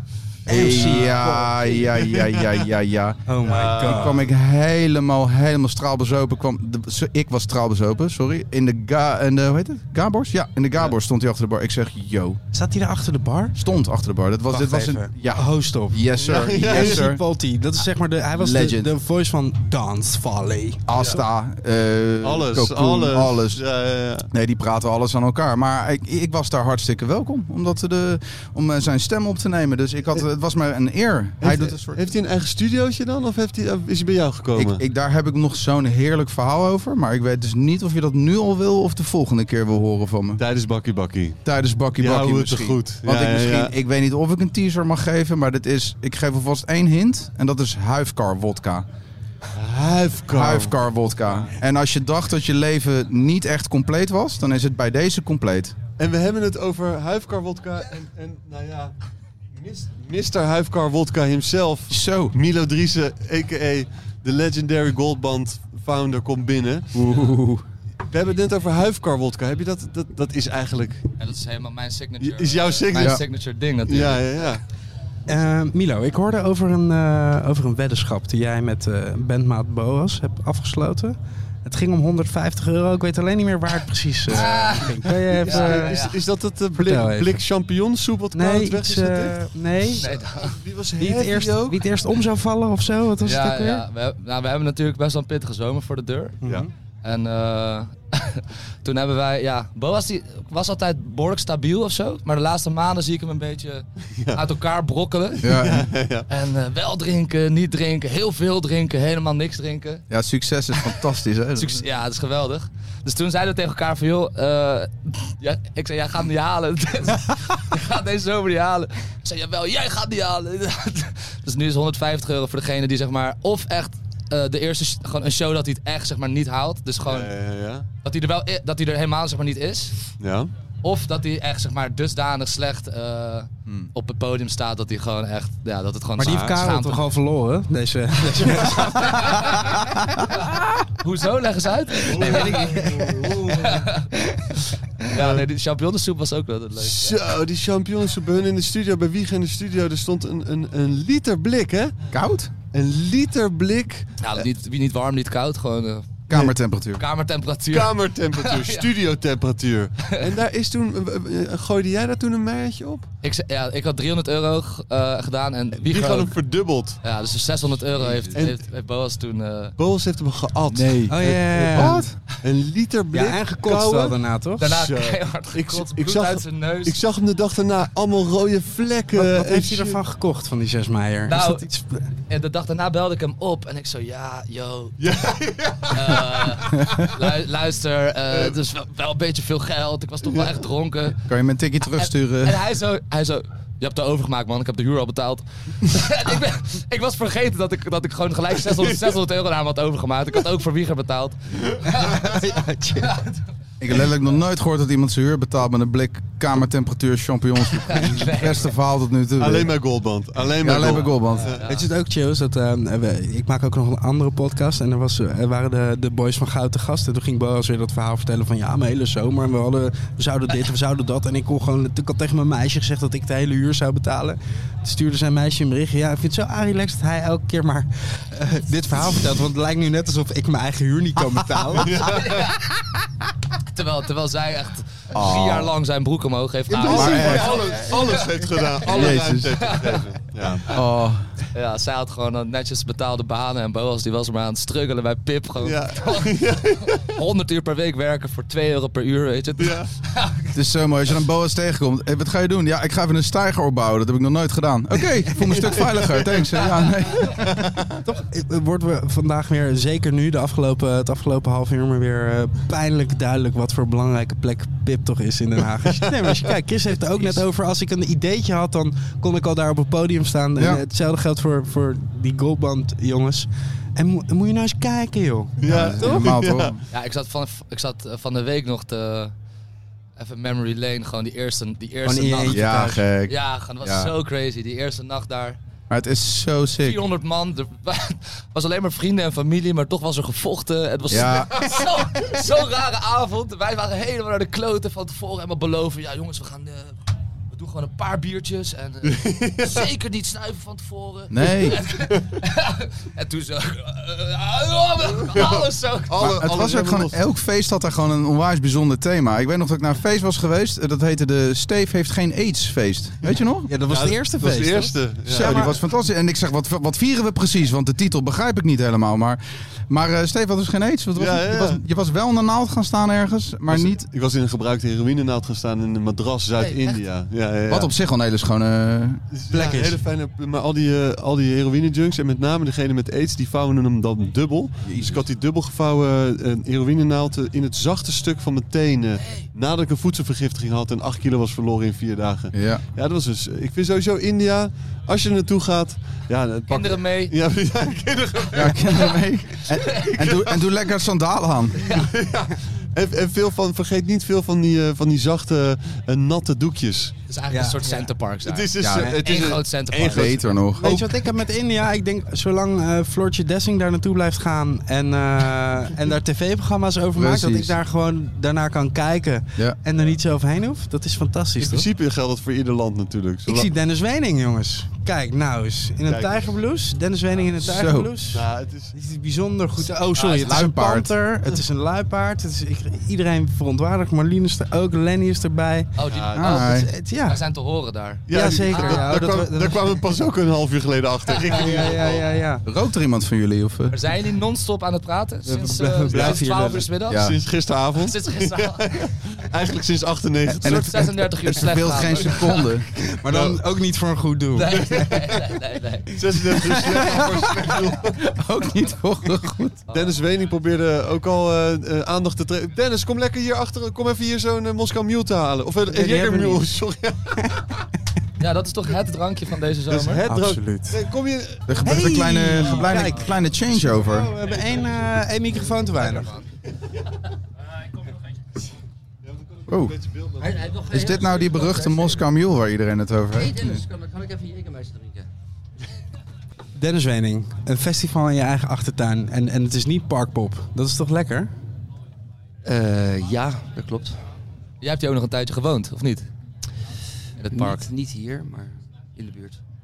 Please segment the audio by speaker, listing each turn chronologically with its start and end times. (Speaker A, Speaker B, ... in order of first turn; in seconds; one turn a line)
Speaker A: 0.5-1.5
Speaker B: 0.5-3.2
Speaker C: 0.6-2.7
Speaker A: 3.3-4.2
Speaker C: 3.4-4.3
Speaker B: 3.8-12.4
Speaker A: 12.5-13.6
Speaker B: 13.6-17.2
Speaker A: 14.5-20.8
Speaker C: 16.2-17.1
Speaker B: 18.4-18.9
Speaker B: 20.9-23.6
Speaker C: 20.9-21.2
Speaker C: 22.2-24.3
Speaker B: 24.3-32.1
Speaker C: 31.4-34.8
Speaker B: 34.5-40.4
Speaker C: 40.4-41.4
Speaker B: 41.4-48.9
Speaker C: 42.0-43.7
Speaker C: 49.5-51.5
Speaker B: 50.3-55.8
Speaker C: 56.0-58.9
Speaker C: 59.5-67.0
Speaker B: 61.9-62.3
Speaker B: 67.0-67.6
Speaker C: 68.0-71.1
Speaker D: 71.2-74.6
Speaker C: 72.2-73.2
Speaker B: 72.9-73.2
Speaker C: 73.8-74.6
Speaker A: 75.3-86.0
Speaker D: 84.3-86.2
Speaker C: 85.3-91.8
Speaker A: 86.8-87.4
Speaker A: 88.3-90.1
Speaker D: 90.0-90.6
Speaker A: 91.0-93.8
Speaker D: 93.2-96.4
Speaker A: 96.4-96.7
Speaker D: 97.0-105.5
Speaker C: 104.1-104.4
Speaker C: 105.4-106.2
Speaker B: 105.4-105.9
Speaker D: 106.3-110.0
Speaker B: 110.1-111.8
Speaker D: 111.5-127.3
Speaker C: 127.0-127.8
Speaker D: 128.0-129.9
Speaker C: 130.2-130.5
Speaker D: 130.8-137.0
Speaker A: 136.2-139.8
Speaker D: 138.9-139.6
Speaker D: 141.0-142.9
Speaker C: 142.1-143.8
Speaker A: 142.2-143.5
Speaker D: 143.5-144.1
Speaker D: 145.0-147.2
Speaker C: 145.1-145.4
Speaker C: 146.8-151.9
Speaker B: 152.1-152.5
Speaker C: 152.7-154.2
Speaker D: 154.2-156.2
Speaker B: 156.3-157.0
Speaker D: 157.0-158.9
Speaker C: 157.7-163.1
Speaker D: 163.2-166.4
Speaker C: 165.8-167.0
Speaker D: 167.0-169.8
Speaker C: 167.9-168.6
Speaker C: 169.8-180.0
Speaker B: 170.8-171.1
Speaker A: 171.1-172.1
Speaker B: 171.7-172.1
Speaker A: 173.1-174.7
Speaker D: 174.6-177.0
Speaker A: 179.1-182.0
Speaker D: 181.3-181.7
Speaker D: 182.3-184.9
Speaker C: 185.0-186.7
Speaker D: 185.9-191.2
Speaker B: 186.8-187.1
Speaker B: 191.2-192.6
Speaker D: 192.0-202.4
Speaker A: 202.0-203.1
Speaker D: 203.0-203.4
Speaker B: 203.8-209.7
Speaker D: 207.9-208.7
Speaker C: 209.4-211.6
Speaker B: 210.6-211.6
Speaker D: 211.0-211.9
Speaker A: 211.6-232.0
Speaker C: 231.8-232.3
Speaker D: 232.1-232.7
Speaker D: 233.7-238.2
Speaker B: 235.1-235.7
Speaker C: 236.7-240.8
Speaker B: 236.8-237.7
Speaker B: 238.8-239.6
Speaker D: 239.6-240.0
Speaker B: 240.7-241.3
Speaker D: 241.5-250.5
Speaker C: 245.6-247.1
Speaker C: 249.6-249.9
Speaker B: 250.5-257.9
Speaker C: 255.3-256.6
Speaker A: 258.0-276.1
Speaker C: 265.9-266.5
Speaker B: 270.6-270.8
Speaker C: 275.6-276.7
Speaker B: 275.6-276.8
Speaker D: 276.9-279.3
Speaker D: 280.2-282.6
Speaker A: 282.0-283.1
Speaker B: 282.5-284.1
Speaker D: 283.3-285.6
Speaker B: 285.9-287.0
Speaker D: 286.8-296.9
Speaker B: 291.1-291.7
Speaker D: 297.5-306.3
Speaker C: 299.0-299.9
Speaker B: 301.3-301.8
Speaker C: 305.2-307.2
Speaker B: 306.2-313.7
Speaker A: 313.7-315.7
Speaker C: 313.9-315.8
Speaker B: 315.3-324.1
Speaker C: 321.1-321.8
Speaker C: 323.7-327.9
Speaker D: 326.6-327.0
Speaker B: 327.7-329.2
Speaker C: 329.3-349.2
Speaker A: 329.5-330.0
Speaker B: 334.8-335.2
Speaker B: 342.5-342.8
Speaker D: 346.7-347.3
Speaker B: 348.5-351.8
Speaker C: 349.9-350.6
Speaker C: 351.9-357.1
Speaker D: 357.3-360.3
Speaker A: 357.5-358.1
Speaker C: 358.4-361.2
Speaker B: 358.8-359.2
Speaker B: 360.1-360.9
Speaker A: 360.8-371.9
Speaker B: 367.1-367.7
Speaker C: 371.6-373.7
Speaker A: 373.5-378.4
Speaker C: 376.1-376.5
Speaker C: 377.4-378.9
Speaker B: 377.6-378.1
Speaker A: 378.9-385.9
Speaker D: 380.2-380.6
Speaker B: 380.4-381.1
Speaker D: 386.0-389.1
Speaker C: 386.1-386.7
Speaker B: 386.3-386.9
Speaker A: 386.6-387.4
Speaker C: 388.3-392.3
Speaker A: 388.3-390.0
Speaker A: 391.5-392.6
Speaker B: 392.6-394.0
Speaker D: 393.9-397.2
Speaker A: 395.4-396.9
Speaker C: 396.1-396.5
Speaker B: 397.1-397.4
Speaker C: 397.1-401.1
Speaker D: 398.0-399.0
Speaker B: 400.6-402.9
Speaker D: 400.6-402.6
Speaker A: 403.2-405.4
Speaker C: 403.3-403.6
Speaker D: 404.6-406.1
Speaker C: 406.1-408.2
Speaker B: 408.2-409.8
Speaker C: 409.9-417.5
Speaker A: 415.9-416.7
Speaker D: 418.4-420.2
Speaker C: 419.9-421.8
Speaker A: 420.1-421.0
Speaker B: 421.7-424.3
Speaker A: 421.8-426.3
Speaker D: 426.0-426.4
Speaker C: 429.3-430.8
Speaker B: 429.7-429.9
Speaker E: 430.4-432.1
Speaker B: 430.9-433.8
Speaker E: 433.3-435.3
Speaker A: 436.8-441.5
Speaker E: 442.6-444.2
Speaker D: 444.8-446.3
Speaker D: 447.4-447.8
Speaker E: 447.5-449.6